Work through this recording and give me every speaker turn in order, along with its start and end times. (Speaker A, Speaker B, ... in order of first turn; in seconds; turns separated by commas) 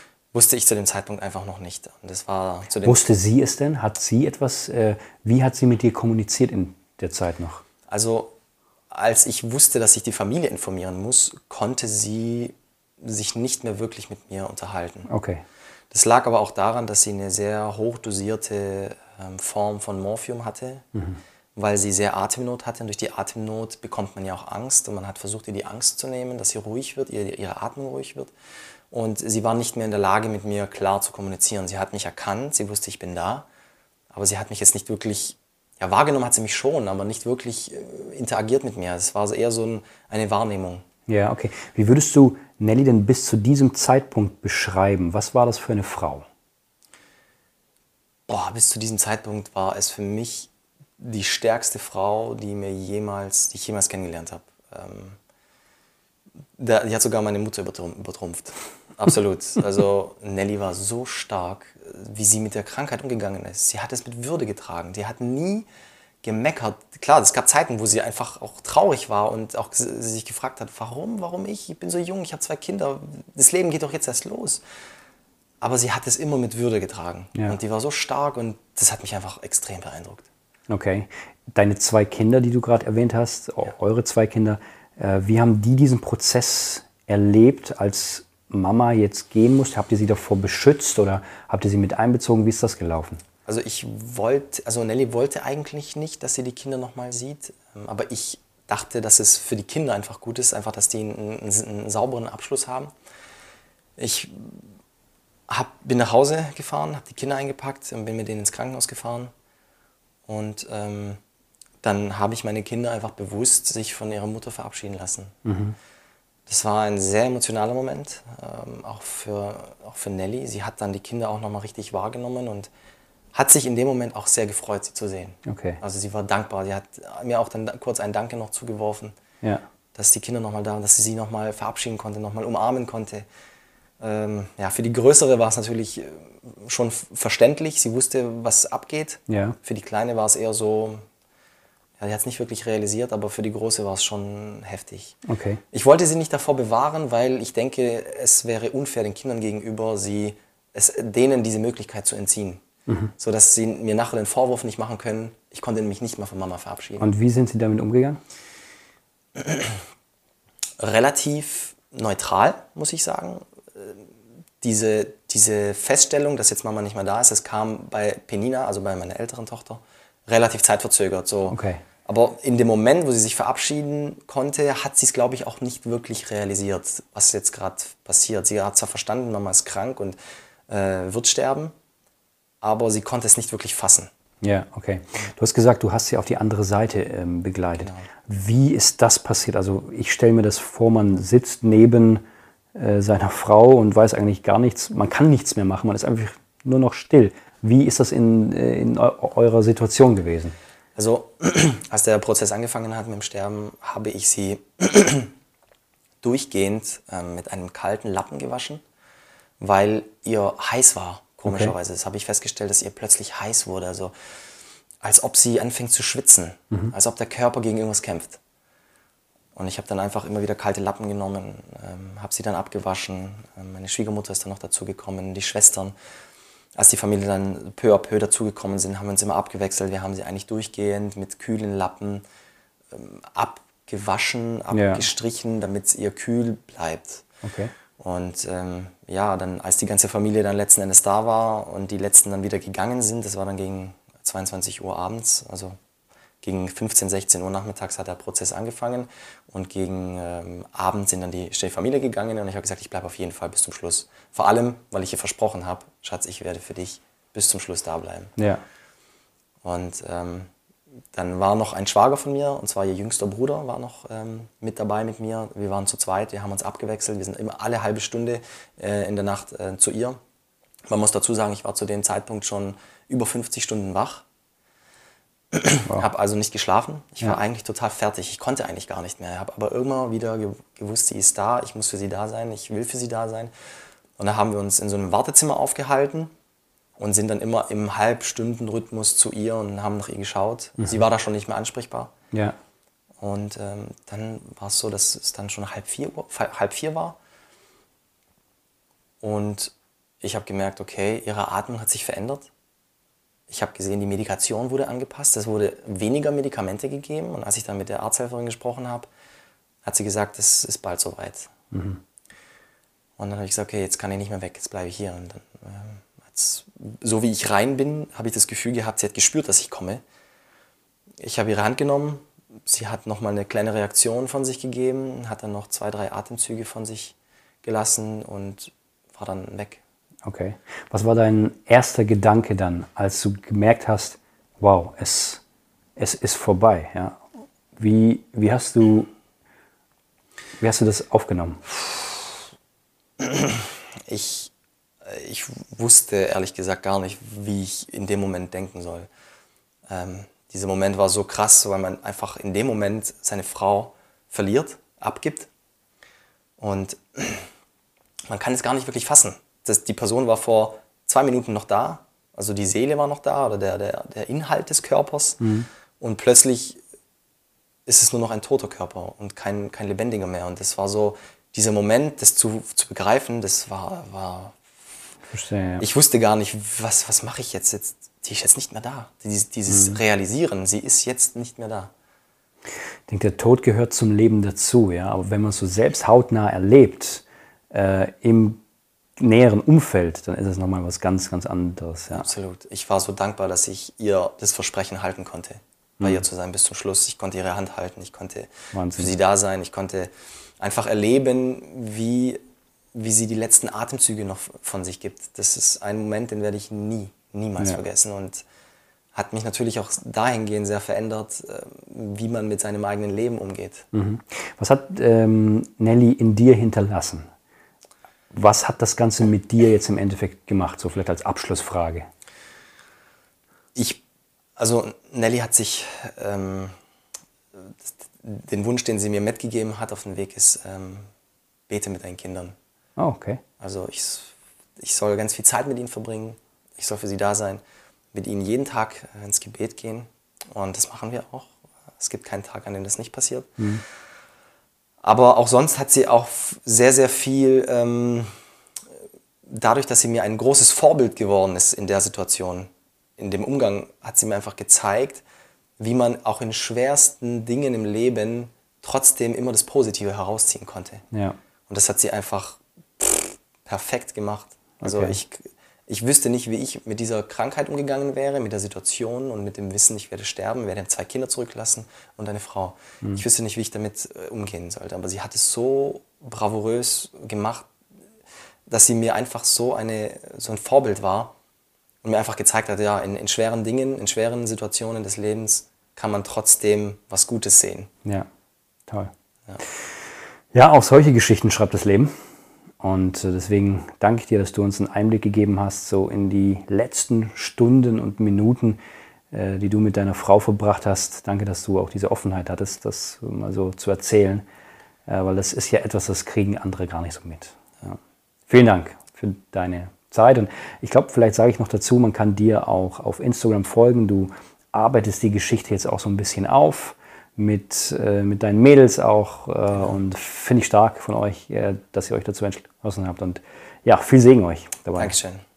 Speaker A: 0.3-3.1, Speaker B: 2.8-7.6, Speaker A: 7.9-8.3, Speaker A: 8.9-15.1, Speaker B: 15.1-15.4, Speaker A: 15.9-20.8, Speaker B: 20.9-21.2, Speaker A: 21.6-28.3, Speaker A: 28.9-33.5, Speaker A: 34.1-40.8, Speaker B: 41.1-46.2, Speaker A: 48.3-55.2, Speaker A: 56.6-65.7, Speaker A: 66.2-74.6, Speaker A: 75.6-80.3, Speaker B: 80.7-93.2, Speaker A: 93.5-102.9, Speaker A: 104.0-104.6, Speaker A: 105.5-109.3, Speaker A: 110.3-111.2, Speaker A: 111.8-115.3, Speaker B: 115.4-115.8, Speaker A: 116.5-122.7, Speaker A: 123.3-129.2, Speaker B: 125.5-125.8, Speaker A: 129.9-133.2, Speaker A: 134.0-141.0, Speaker B: 139.3-139.6, Speaker A: 142.0-145.2, Speaker B: 145.2-145.6, Speaker A: 145.7-152.6, Speaker B: 152.9-153.1, Speaker A: 153.2-157.1, Speaker B: 157.0-158.2, Speaker A: 159.4-159.8, Speaker A: 160.8-164.0, Speaker A: 164.6-180.2, Speaker B: 171.5-171.8, Speaker A: 180.7-181.7, Speaker A: 182.6-184.1, Speaker B: 184.4-192.2, Speaker A: 187.8-188.1, Speaker B: 192.7-200.5, Speaker A: 200.9-205.3, Speaker A: 206.2-208.8, Speaker A: 209.6-214.1, Speaker B: 211.5-211.7, Speaker A: 215.0-218.4, Speaker A: 219.5-225.9, Speaker A: 226.8-232.2, Speaker A: 232.9-237.2, Speaker B: 234.7-235.1, Speaker B: 237.4-237.7, Speaker A: 238.0-245.8, Speaker A: 246.4-258.3, Speaker B: 258.4-258.6, Speaker A: 259.6-260.5, Speaker A: 261.1-270.2, Speaker A: 270.9-274.2, Speaker A: 275.5-283.5, Speaker A: 284.2-286.3, Speaker A: 287.0-292.1, Speaker A: 293.2-297.2, Speaker A: 299.2-302.5, Speaker A: 303.5-309.1, Speaker A: 309.8-311.5, Speaker B: 311.7-312.0, Speaker A: 313.2-320.0, Speaker A: 321.2-329.8, Speaker B: 330.2-335.4, Speaker B: 336.0-337.2, Speaker B: 337.8-339.1, Speaker B: 340.6-341.6, Speaker A: 343.2-344.5, Speaker A: 345.0-349.1, Speaker A: 349.9-355.5, Speaker A: 356.6-357.5, Speaker A: 358.3-365.4, Speaker B: 365.4-365.7, Speaker A: 366.0-366.8, Speaker A: 367.9-374.6, Speaker B: 375.3-375.9, Speaker A: 375.8-381.9, Speaker B: 379.7-380.0, Speaker B: 383.1-388.6, Speaker B: 389.2-392.3, Speaker A: 392.1-402.4, Speaker B: 398.7-399.1, Speaker A: 402.9-408.4, Speaker A: 409.1-413.9, Speaker B: 413.9-417.3, Speaker B: 418.3-422.1, Speaker A: 423.7-424.0, Speaker A: 424.6-426.7, Speaker A: 427.5-431.1, Speaker A: 431.7-432.5, Speaker B: 433.0-433.4, Speaker A: 433.6-437.6, Speaker A: 438.1-443.6, Speaker A: 445.0-448.3, Speaker A: 449.4-455.2, Speaker A: 455.8-461.0, Speaker B: 461.1-461.4, Speaker A: 461.7-477.7, Speaker B: 464.8-465.2, Speaker A: 478.7-481.3, Speaker A: 482.0-487.9, Speaker B: 488.9-490.0, Speaker B: 490.5-492.1, Speaker B: 492.8-498.8, Speaker B: 499.3-504.4, Speaker B: 505.1-508.0, Speaker B: 508.5-525.1, Speaker A: 524.9-525.4